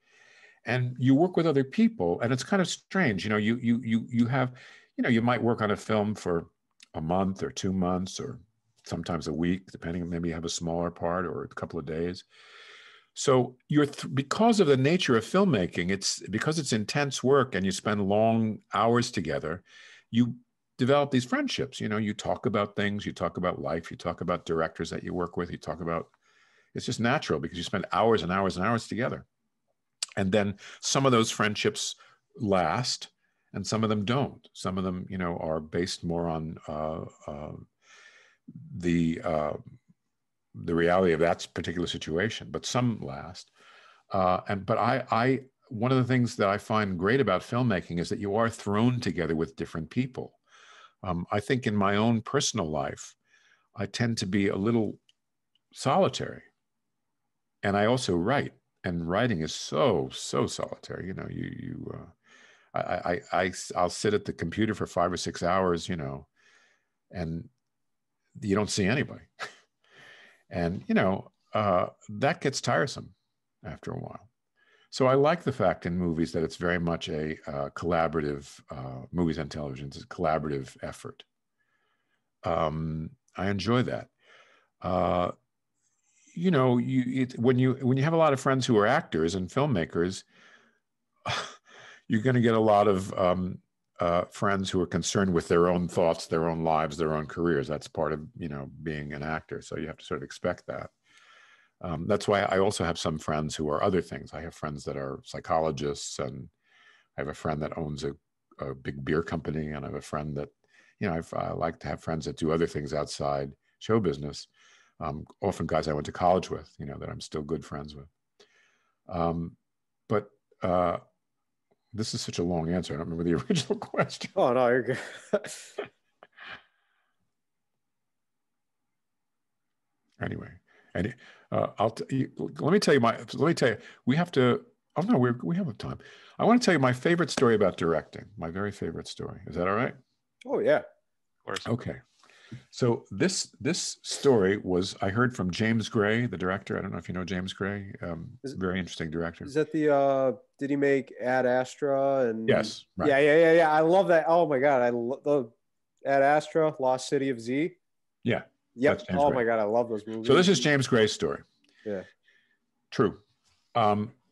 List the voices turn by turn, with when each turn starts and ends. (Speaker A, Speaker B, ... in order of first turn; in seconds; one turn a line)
Speaker A: 0.7-12.2
Speaker A: 13.2-26.1
Speaker A: 26.7-29.3
Speaker A: 30.2-37.6
Speaker A: 38.5-39.6
Speaker A: 40.5-43.5
Speaker A: 44.1-50.4
Speaker A: 51.0-53.2
Speaker A: 53.8-55.0
Speaker A: 55.7-56.5
Speaker A: 57.6-62.1
Speaker A: 62.7-66.3
Speaker A: 67.1-67.5
Speaker A: 68.4-69.3
Speaker A: 70.5-74.3
Speaker A: 74.9-81.2
Speaker A: 82.4-84.1
Speaker A: 84.8-85.3
Speaker A: 86.3-90.2
Speaker A: 91.2-91.6
Speaker A: 92.1-100.9
Speaker A: 101.8-106.5
Speaker A: 107.2-114.5
Speaker A: 115.0-118.1
Speaker A: 119.1-119.6
Speaker A: 120.1-121.0
Speaker A: 121.9-124.3
Speaker B: 124.3-125.8
Speaker A: 130.2-140.0
Speaker B: 140.5-140.8
Speaker A: 141.7-142.0
Speaker A: 142.7-149.5
Speaker B: 149.4-155.5
Speaker A: 152.5-153.1
Speaker B: 156.1-157.8
Speaker A: 158.2-159.4
Speaker B: 158.8-160.6
Speaker A: 160.2-161.4
Speaker A: 162.9-163.2
Speaker A: 163.8-164.2